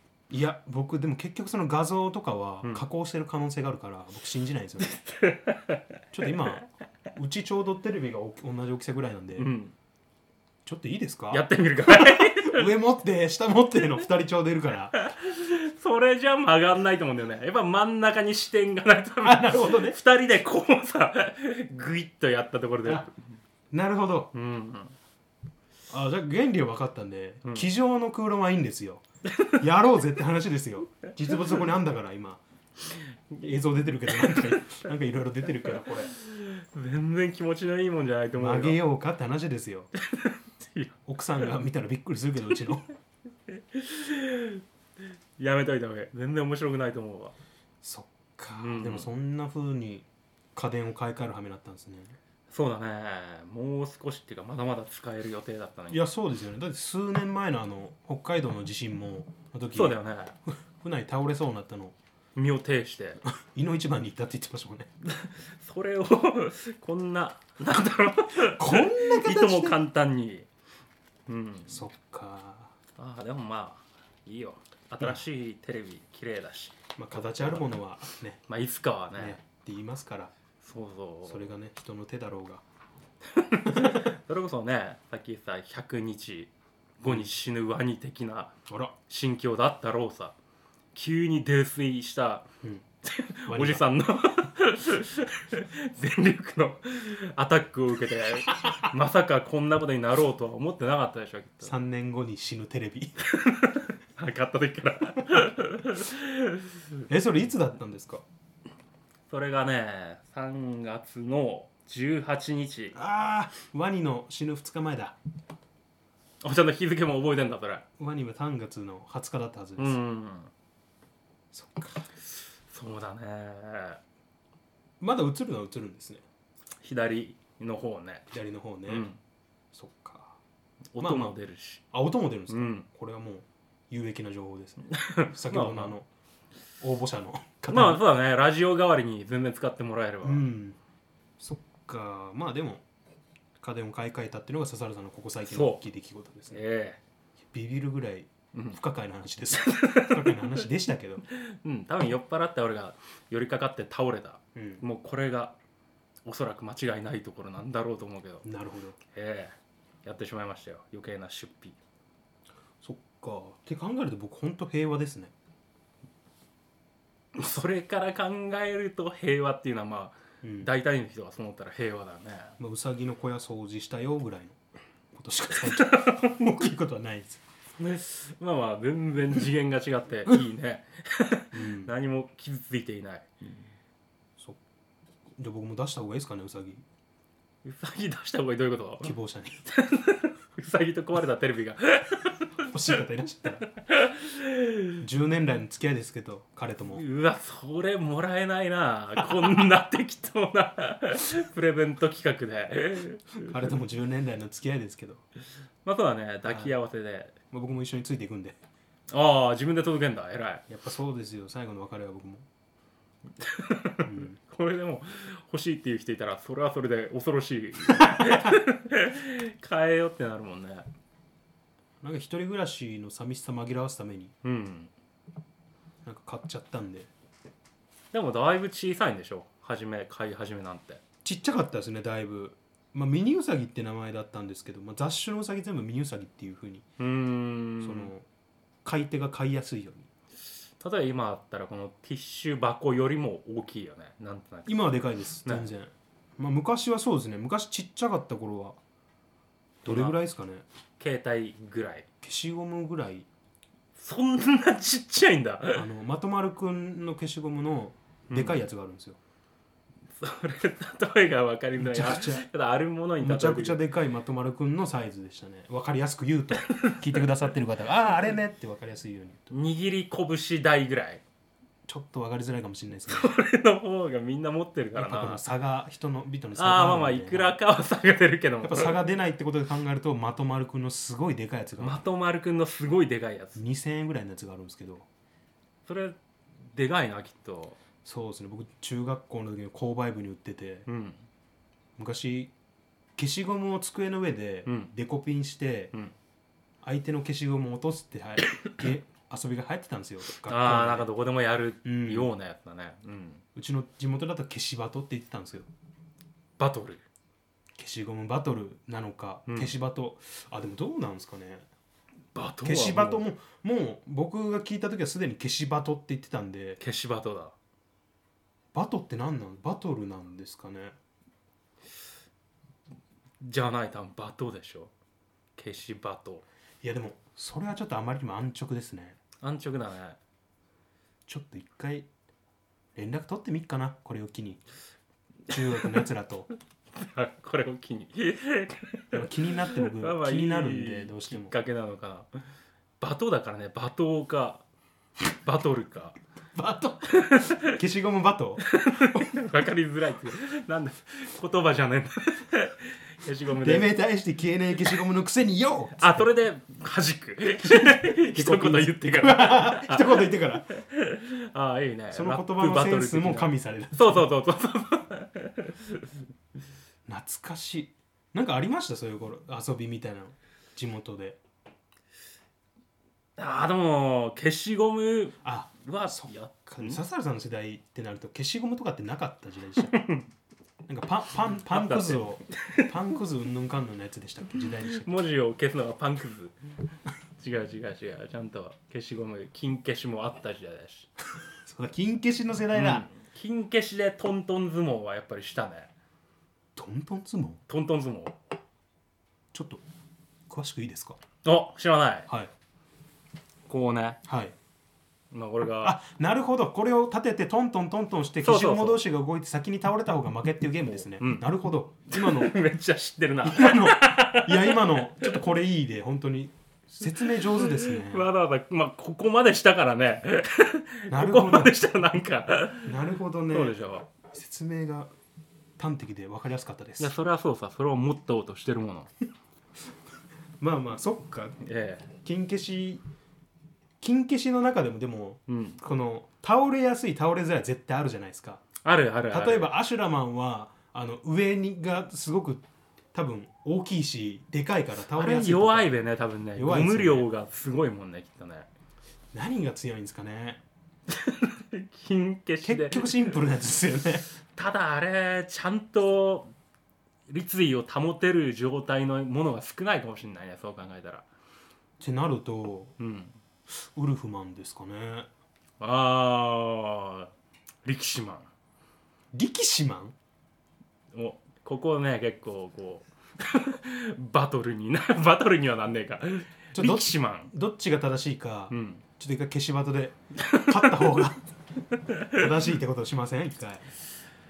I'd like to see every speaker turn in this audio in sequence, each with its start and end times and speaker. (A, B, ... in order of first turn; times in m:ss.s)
0:00.3-0:05.0 A
0:04.8-0:06.4 B
0:06.1-0:09.5 A
0:09.4-0:09.7 B
0:10.6-0:15.0 A
0:11.3-0:12.7 B
0:14.9-0:23.2 B
0:19.2-0:20.0 A
0:23.7-0:24.3 A
0:24.3-0:24.9 B
0:25.9-0:32.4 A
0:32.9-0:33.4 B
0:33.4-0:36.1 A
0:34.1-0:34.6 B
0:36.1-0:38.8 B
0:38.3-0:39.9 A
0:40.0-0:40.9 B
0:41.0-0:42.9 A
0:43.5-0:44.6 B
0:45.4-0:47.3 B
0:47.8-0:52.2 A
0:48.6-0:49.1 B
0:52.5-0:56.0 B
0:55.9-1:02.0 A
0:59.7-1:00.4 B
1:02.4-1:03.2 B
1:03.2-1:04.9 A
1:05.0-1:10.5 B
1:08.4-1:09.8 A
1:11.3-1:11.8 B
1:11.7-1:12.7 A
1:13.0-1:17.7 B
1:17.0-1:18.4 A
1:18.5-1:19.4 B
1:19.1-1:20.3 A
1:20.6-1:21.5 B
1:21.2-1:22.6 A
1:23.3-1:28.5 B
1:23.7-1:24.1 A
1:27.0-1:27.3 A
1:28.7-1:28.9 A
1:29.1-1:30.4 B
1:30.9-1:32.5 B
1:33.0-1:41.7 B
1:33.5-1:33.8 A
1:41.6-1:43.2 A
1:43.3-1:46.8 B
1:47.1-1:48.2 A
1:49.3-1:53.0 B
1:52.9-1:55.2 A
1:56.4-1:57.8 B
1:58.0-2:00.0 A
1:59.8-2:00.5 B
2:01.5-2:02.1 A
2:02.7-2:04.0 B
2:05.0-2:06.2 A
2:06.8-2:08.2 B
2:08.3-2:09.1 A
2:08.9-2:09.2 B
2:09.7-2:10.4 A
2:10.9-2:11.8 B
2:11.0-2:11.4 A
2:11.9-2:16.1 A
2:12.5-2:12.9 B
2:14.9-2:16.0 B
2:16.8-2:18.0 A
2:17.7-2:20.4 B
2:20.2-2:20.8 A
2:21.4-2:22.8 A
2:23.6-2:26.6 A
2:25.5-2:25.8 B
2:26.5-2:27.0 B
2:27.5-2:31.2 A
2:29.6-2:30.6 B
2:31.3-2:35.6 B
2:34.5-2:34.8 A
2:36.2-2:38.4 B
2:38.4-2:39.0 A
2:39.1-2:41.8 B
2:42.8-2:45.3 A
2:47.3-2:52.6 B
2:50.4-2:50.7 A
2:52.6-2:54.6 A
2:55.1-2:57.4 A
2:55.6-2:56.4 B
2:57.8-3:03.5 B
3:01.5-3:01.9 A
3:05.4-3:06.8 A
3:07.6-3:09.1 B
3:09.0-3:09.6 A
3:09.7-3:12.7 B
3:12.7-3:13.7 A
3:13.8-3:15.0 B
3:15.0-3:17.0 A
3:16.9-3:23.5 B
3:23.4-3:25.2 A
3:25.8-3:27.4 B
3:26.5-3:26.7 A
3:27.5-3:28.6 A
3:29.1-3:30.6 B
3:30.7-3:32.4 A
3:33.4-3:40.9 B
3:34.0-3:34.4 A
3:38.0-3:38.5 A
3:42.0-3:44.3 A
3:44.4-3:44.9 B
3:46.0-3:47.1 A
3:48.1-3:51.0 B
3:51.2-3:56.8 A
3:57.0-3:58.1 B
3:57.8-3:58.2 A
3:58.8-4:00.1 A
4:00.8-4:04.8 B
4:04.7-4:08.8 A
4:05.4-4:05.7 B
4:09.8-4:10.6 A
4:09.8-4:10.2 B
4:11.0-4:12.1 B
4:12.2-4:13.3 A
4:14.0-4:15.8 B
4:15.7-4:19.2 A
4:18.3-4:18.6 B
4:20.2-4:23.8 B
4:21.8-4:22.4 A
4:23.2-4:29.6 A
4:26.6-4:27.2 B
4:29.5-4:31.2 B
4:31.8-4:33.3 A
4:33.1-4:35.4 B
4:35.0-4:37.6 A
4:36.6-4:39.0 B
4:38.6-4:42.0 A
4:41.8-4:43.6 B
4:43.5-4:45.1 A
4:45.8-4:46.2 B
4:46.7-4:47.8 B
4:48.0-4:50.9 A
4:50.9-4:51.2 B
4:52.0-4:52.5 A
4:53.2-4:55.9 A
4:54.6-4:54.9 B
4:56.8-5:01.1 A
5:00.4-5:03.4 B
5:01.8-5:02.3 A
5:03.5-5:05.7 A
5:06.6-5:07.0 B
5:07.8-5:11.6 A
5:09.5-5:09.7 B
5:12.3-5:13.2 B
5:12.6-5:16.8 A
5:16.8-5:17.5 B
5:18.7-5:20.9 A
5:23.4-5:24.9 B
5:25.6-5:26.4 B
5:26.8-5:29.2 A
5:29.4-5:30.2 B
5:31.3-5:32.1 A
5:32.9-5:34.6 A
5:35.5-5:36.5 A
5:37.0-5:39.2 B
5:39.1-5:41.5 A
5:39.8-5:42.3 B
5:43.0-5:44.6 B
5:45.4-5:46.2 B
5:46.5-5:49.3 A
5:47.1-5:47.7 B
5:48.7-5:53.9 B
5:53.6-5:56.3 A
5:56.0-6:06.1 B
5:57.6-6:00.7 A
6:02.1-6:04.3 A
6:07.0-6:11.4 A
6:13.4-6:17.0 B
6:15.4-6:19.9 A
6:19.8-6:20.3 B
6:20.8-6:25.1 A
6:21.7-6:22.9 B
6:24.9-6:26.5 B
6:27.4-6:31.1 B
6:31.6-6:33.1 A
6:32.7-6:35.9 B
6:36.8-6:37.6 A
6:37.7-6:38.4 B
6:39.5-6:39.8 A
6:40.5-6:41.2 A
6:41.4-6:42.3 B
6:43.7-6:44.2 B
6:44.2-6:44.5 A
6:45.3-6:46.0 B
6:45.8-6:52.5 A
6:48.4-6:49.0 B
6:50.9-6:51.4 B
6:52.1-6:55.4 B
6:53.4-6:58.3 A
6:57.2-7:02.9 B
7:01.1-7:01.7 A
7:02.8-7:03.8 A
7:03.5-7:04.1 B
7:04.3-7:05.1 A
7:05.8-7:07.1 A
7:07.0-7:09.1 B
7:10.6-7:11.6 A
7:11.6-7:12.1 B
7:12.1-7:13.0 A
7:14.0-7:18.6 A
7:15.5-7:15.8 B
7:18.8-7:19.7 B
7:19.3-7:25.9 A
7:25.2-7:28.7 B
7:26.6-7:27.3 A
7:29.3-7:30.6 A
7:31.1-7:33.3 B
7:32.6-7:34.2 A
7:34.5-7:36.5 B
7:37.3-7:41.2 B
7:42.0-7:42.9 A
7:43.0-7:43.4 B
7:43.7-7:45.3 A
7:45.8-7:47.3 B
7:47.8-7:48.5 B
7:49.3-7:50.2 A
7:51.1-7:57.5 B
7:56.7-8:01.4 A
7:58.7-7:59.0 B
8:00.4-8:01.1 B
8:02.0-8:02.4 B
8:02.3-8:03.9 A